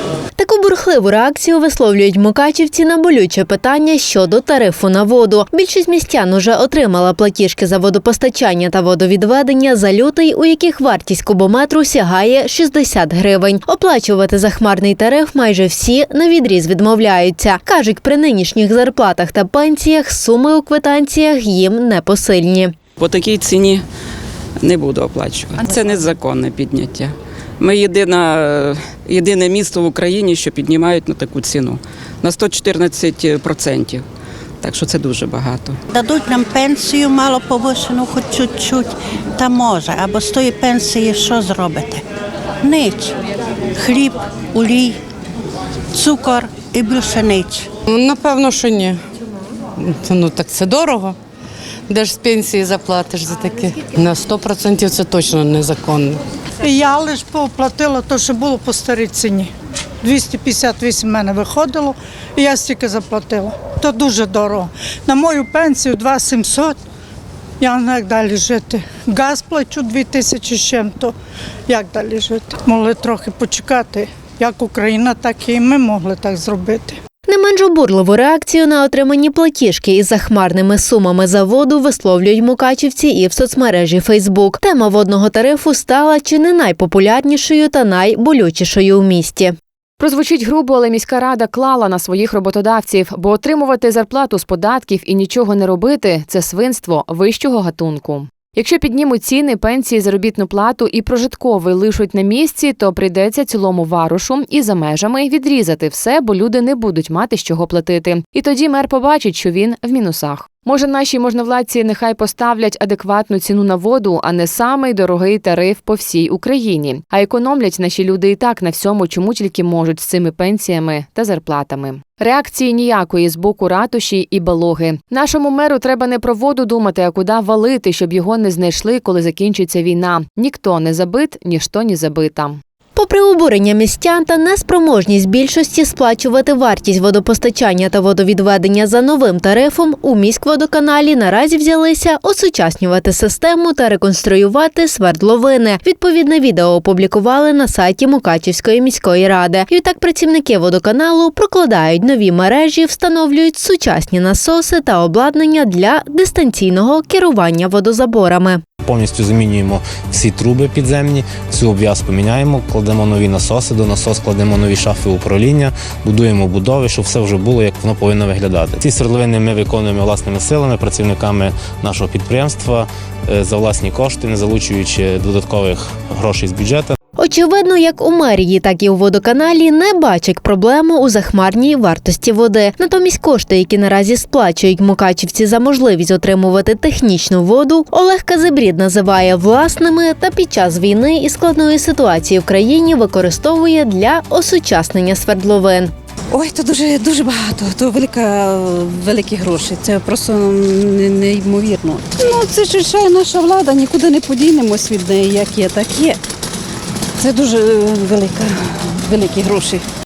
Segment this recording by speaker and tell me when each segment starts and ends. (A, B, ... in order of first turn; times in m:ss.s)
0:00.4-0:22.7 A
0:23.0-0:23.8 B
0:24.6-0:34.0 B
0:34.6-0:35.8 B
0:35.9-0:42.0 C
0:42.6-0:43.2 C
0:43.8-0:45.0 C
0:45.9-0:47.7 C
0:47.9-0:49.0 D
0:49.8-0:51.2 D
0:51.9-0:56.2 D
0:56.6-0:59.5 E
1:00.0-1:06.8 E
1:07.6-1:11.1 E
1:11.7-1:17.0 E
1:17.3-1:29.6 A
1:30.0-2:12.6 F
2:13.0-2:38.6 A
2:38.8-2:57.0 G
2:57.2-3:15.9 A
3:16.3-3:26.2 H
3:27.2-3:29.8 H